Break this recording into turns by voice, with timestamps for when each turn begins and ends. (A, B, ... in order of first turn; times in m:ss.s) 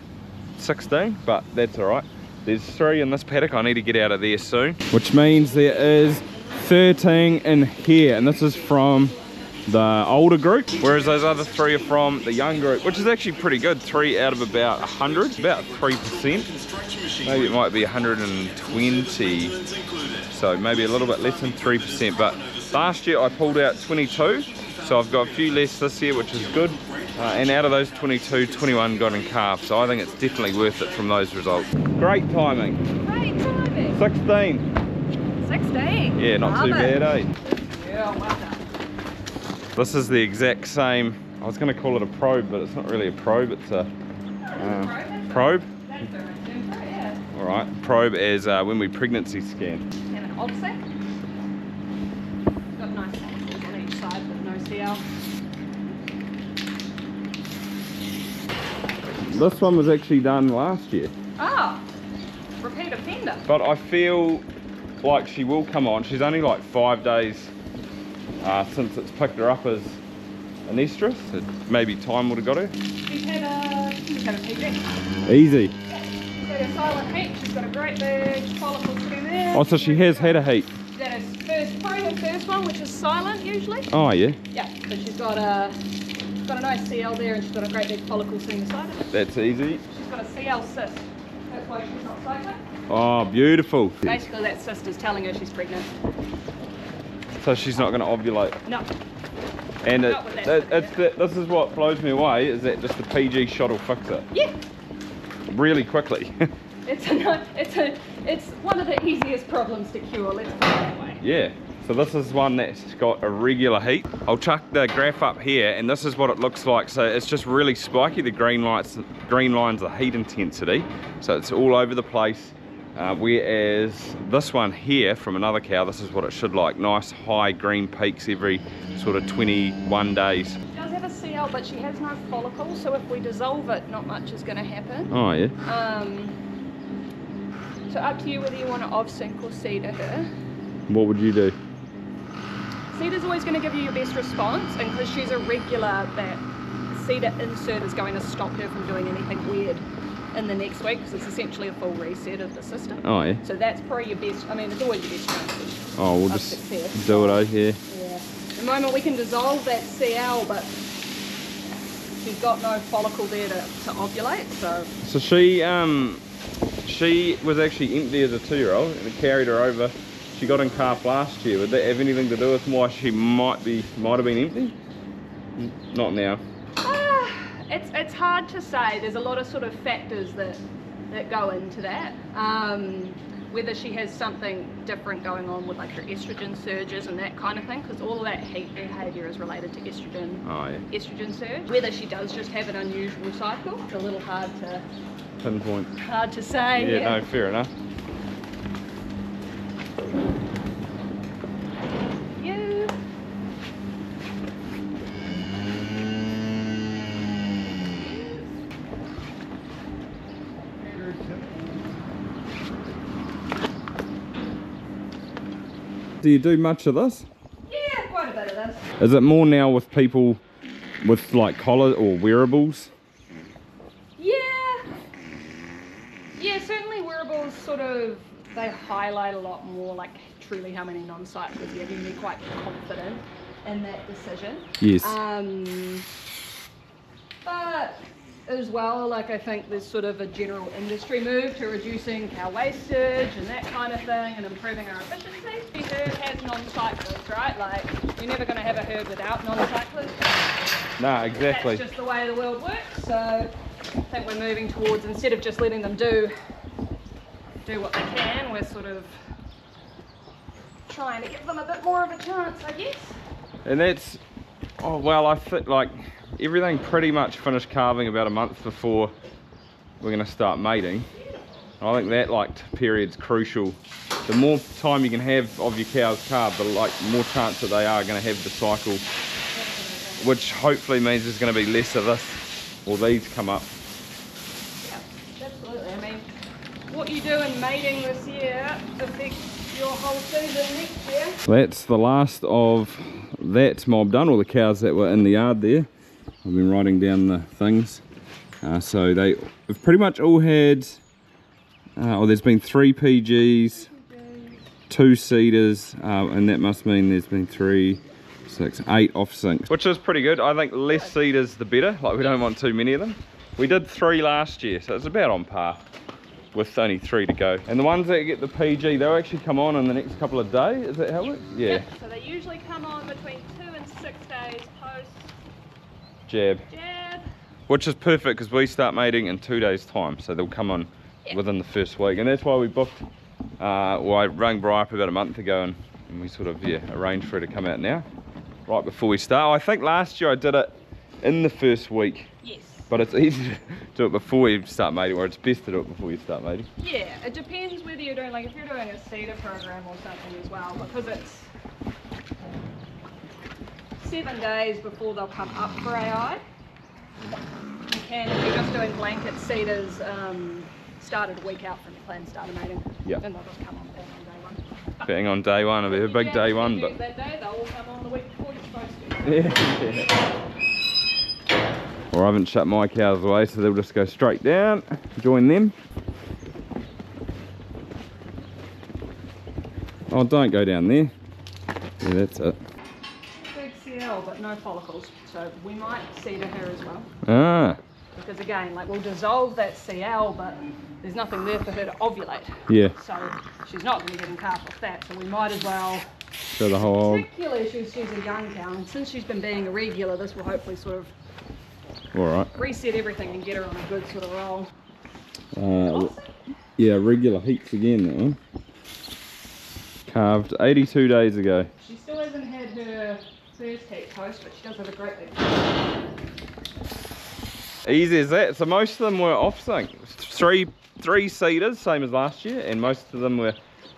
0:00.6-0:09.1 A
0:09.7-0:16.5 A
0:17.2-0:19.6 A
0:20.3-0:32.8 A
0:33.0-0:34.0 B
0:33.9-0:34.6 A
0:35.4-0:38.7 B
0:36.2-0:37.3 A
0:39.7-0:43.9 A
0:44.4-0:47.2 B
0:44.6-0:45.7 A
0:47.3-0:49.8 A
0:50.1-0:50.8 B
0:52.8-0:55.0 B
0:59.2-1:01.1 A
1:01.4-1:01.8 B
1:02.6-1:03.4 B
1:03.5-1:04.4 A
1:05.0-1:07.5 A
1:08.4-1:10.0 A
1:10.7-1:12.8 A
1:13.0-1:14.9 B
1:15.2-1:15.7 A
1:15.9-1:23.9 B
1:19.5-1:20.7 A
1:23.9-1:24.4 A
1:24.5-1:25.7 B
1:26.4-1:29.2 B
1:29.1-1:29.8 A
1:29.9-1:32.6 B
1:32.9-1:34.2 A
1:34.0-1:35.9 B
1:37.4-1:38.6 A
1:38.6-1:38.9 B
1:39.8-1:44.3 A
1:40.0-1:41.0 B
1:45.5-1:46.3 A
1:46.8-1:51.2 B
1:51.2-2:10.6 A
2:10.7-2:15.1 B
2:15.1-2:15.5 A
2:15.6-2:16.4 B
2:17.9-2:20.3 B
2:20.9-2:21.6 A
2:22.9-2:40.8 B
2:33.0-2:33.4 A
2:36.0-2:37.8 A
2:42.2-2:44.9 B
2:45.0-2:46.2 A
2:46.8-2:54.7 A
2:55.6-2:56.4 A
2:56.8-3:14.8 B
3:10.4-3:10.8 A
3:15.4-3:15.9 A
3:16.0-3:17.2 B
3:16.7-3:17.7 A
3:22.4-3:22.9 B
3:27.9-3:28.5 B
3:30.9-3:31.8 B
3:36.2-3:37.3 A
3:37.7-3:38.9 B
3:39.0-3:40.4 A
3:41.0-3:42.9 A
3:44.2-3:44.9 B
3:46.3-3:56.1 B
3:54.8-3:55.2 A
3:57.4-4:10.6 B
4:11.0-4:11.8 A
4:11.4-4:13.5 B
4:14.1-4:16.3 B
4:17.6-4:19.2 B
4:20.9-4:23.2 B
4:23.6-4:24.2 A
4:24.8-4:29.1 A
4:30.0-4:31.1 A
4:31.1-4:31.4 B
4:31.8-4:39.0 A
4:39.5-4:40.3 B
4:40.2-4:43.7 A
4:44.8-4:46.3 B
4:46.9-4:51.4 B
4:51.5-4:55.9 A
4:56.4-4:58.0 A
4:58.6-5:01.0 A
5:02.0-5:03.9 A
5:03.8-5:04.6 B
5:04.9-5:15.8 A
5:16.5-5:21.8 A
5:21.6-5:25.3 B
5:26.3-5:26.6 A
5:26.7-5:27.2 B
5:27.7-5:33.0 A
5:33.6-5:38.0 A
5:38.7-5:42.3 A
5:42.4-5:42.9 B
5:42.9-5:46.7 A
5:46.8-5:51.5 B
5:54.0-5:56.4 B
5:57.9-6:05.1 B
6:05.0-6:06.9 A
6:05.8-6:09.8 B
6:09.2-6:10.1 A
6:12.1-6:15.7 A
6:20.1-6:21.1 A
6:22.0-6:22.6 A
6:23.4-6:27.1 B
6:27.2-6:27.8 A
6:28.2-6:36.0 B
6:32.7-6:32.9 A
6:36.5-6:37.2 A
6:36.8-6:41.1 B
6:42.1-6:42.5 A
6:42.5-6:44.7 B
6:45.5-6:46.1 A
6:45.8-6:46.3 B
6:46.8-6:48.4 A
6:50.1-6:51.7 A
6:51.8-6:55.6 B
6:57.8-7:03.6 A